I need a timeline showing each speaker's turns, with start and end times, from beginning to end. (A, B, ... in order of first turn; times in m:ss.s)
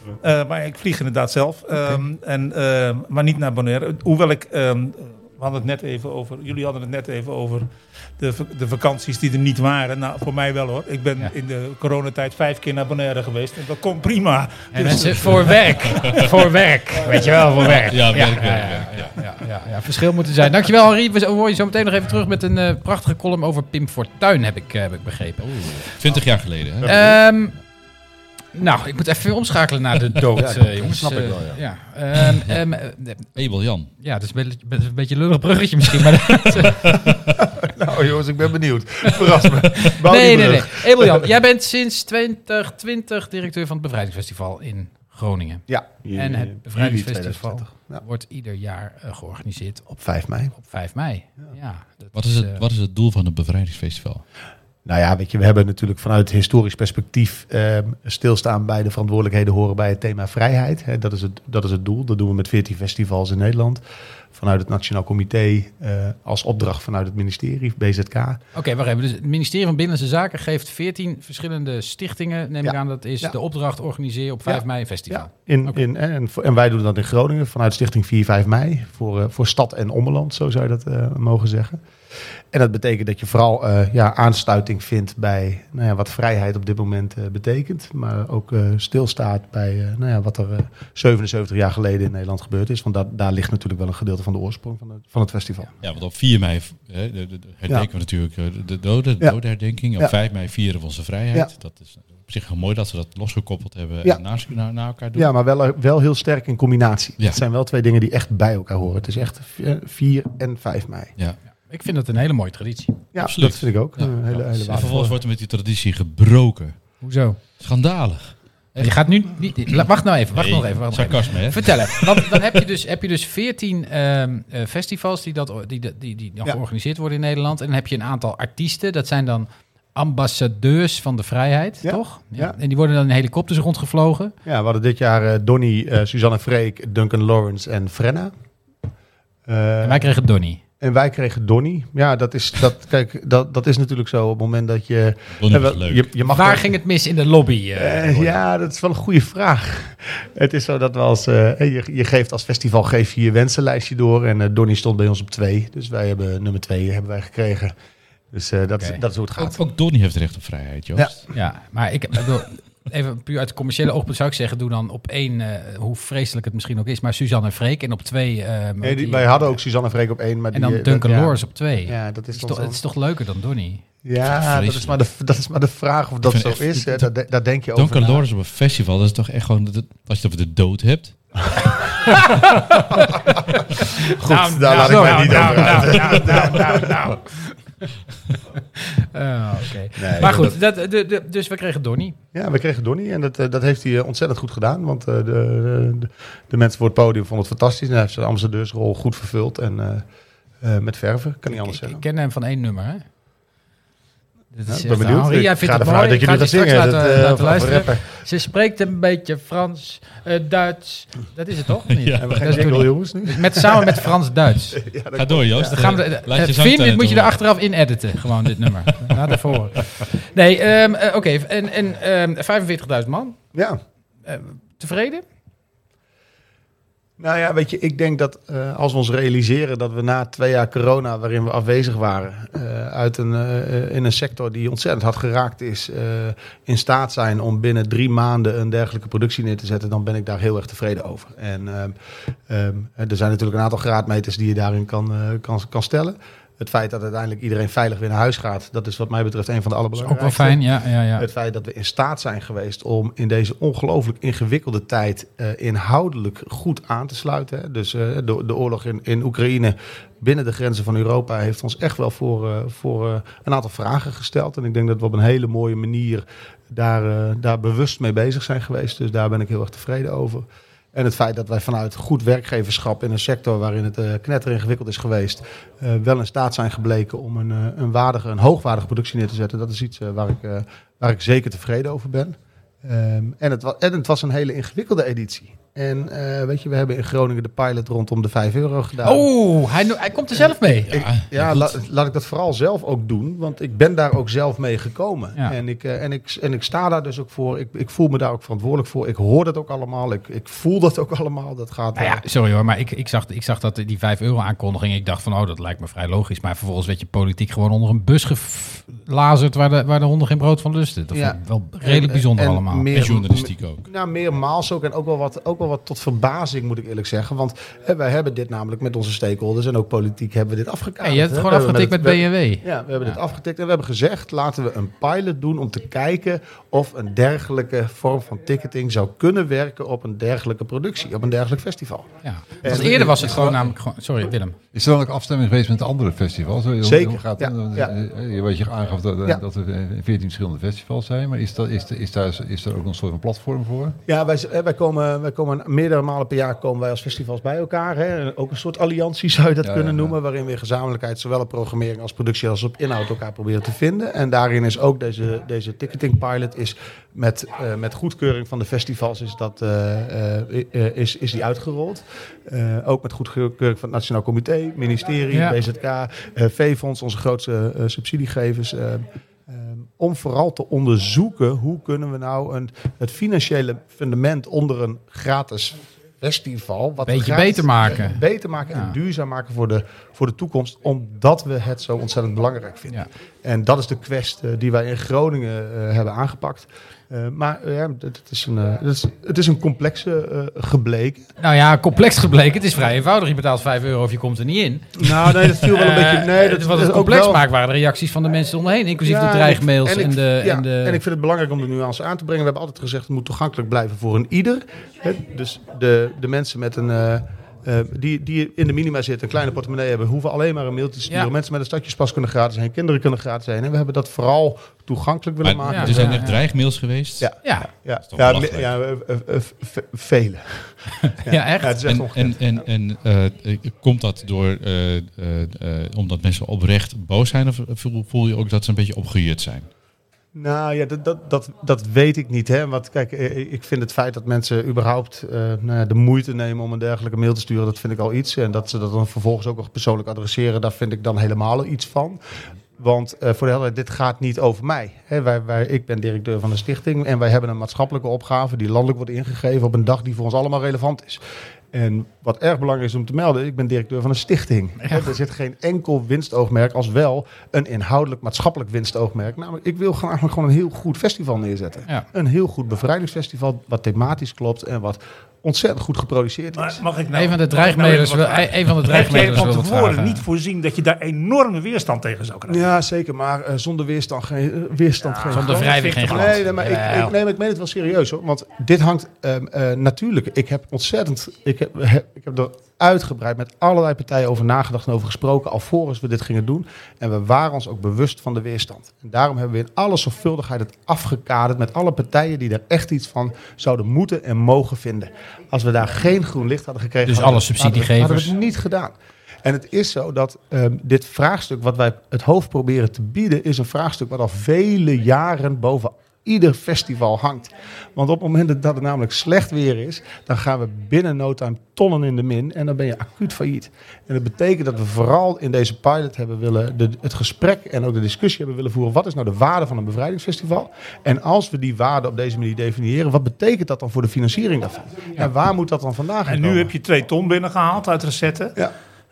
0:00.2-0:16.3 A
0:14.7-0:26.0 B
0:17.6-0:19.1 C
0:25.4-0:27.0 C
0:26.8-0:27.1 D
0:26.8-0:27.6 B
0:28.5-0:33.4 B
0:30.4-0:31.6 D
0:33.4-0:33.9 C
0:34.0-0:37.0 B
0:36.8-0:37.2 C
0:37.6-0:41.3 D
0:39.8-0:49.9 B
0:45.7-0:48.0 D
0:49.9-0:50.5 D
0:50.5-0:52.6 B
0:52.2-0:54.2 C
0:54.8-1:03.8 D
1:04.4-1:08.4 D
1:08.5-1:15.8 B
1:12.6-1:13.4 D
1:14.5-1:21.8 D
1:22.5-1:35.7 D
1:35.8-1:45.3 C
1:45.2-1:51.1 D
1:51.7-1:53.0 B
1:53.1-1:55.2 D
1:53.2-1:56.8 C
1:57.0-1:57.4 B
1:57.6-1:59.2 C
1:58.8-2:14.3 B
2:00.4-2:02.4 C
2:11.8-2:12.6 D
2:14.4-2:18.3 D
2:19.5-2:20.1 D
2:19.8-2:20.6 B
2:20.8-2:26.7 D
2:25.4-2:26.1 C
2:26.3-2:28.4 B
2:27.8-2:37.8 D
2:38.3-2:39.6 D
2:39.4-2:41.2 C
2:41.3-2:49.5 B
2:48.8-2:52.8 D
2:50.5-2:53.8 B
2:54.0-2:58.2 D
2:54.2-2:55.0 C
2:56.2-2:57.1 C
2:57.8-3:01.2 C
3:01.7-3:02.1 D
3:02.1-3:03.0 B
3:03.0-3:03.4 D
3:03.5-3:07.5 B
3:04.0-3:07.2 D
3:05.2-3:05.9 C
3:08.8-3:12.2 B
3:10.0-3:10.6 D
3:12.3-3:20.0 D
3:20.6-3:22.0 D
3:21.5-3:23.0 B
3:24.5-3:34.8 B
3:24.7-3:28.1 D
3:31.9-3:32.6 C
3:32.2-3:34.1 D
3:34.8-3:35.9 D
3:35.2-3:37.4 C
3:35.7-3:43.4 B
3:44.3-3:45.2 B
3:47.2-4:02.0 D
4:02.5-4:10.6 D
4:10.0-4:11.3 B
4:11.2-4:49.3 D
4:49.0-4:50.9 B
4:50.9-4:51.8 C
4:50.9-5:02.2 D
5:02.0-5:12.9 B
5:11.1-5:32.1 D
5:12.9-5:13.9 C
5:21.0-5:23.2 B
5:32.2-5:34.6 B
5:32.6-5:33.5 D
5:32.8-5:33.7 E
5:34.7-5:44.0 E
5:36.8-5:37.9 D
5:44.1-6:31.3 D
5:49.6-5:50.2 E
6:05.3-6:05.6 B
6:17.1-6:18.9 B
6:31.4-6:41.0 B
6:35.0-6:37.4 D
6:39.0-6:56.4 D
6:55.4-6:57.4 C
6:55.7-6:56.4 B
6:57.2-7:02.6 D
6:57.4-6:57.7 B
6:58.1-6:58.7 C
7:01.1-7:01.8 B
7:01.8-7:09.7 C
7:10.4-7:22.2 D
7:22.8-7:46.8 D
7:46.6-7:52.7 A
7:47.1-7:50.2 B
7:52.5-8:46.7 D
7:55.0-7:56.4 A
7:55.3-7:57.1 B
8:17.1-8:18.3 B
8:46.3-8:48.6 A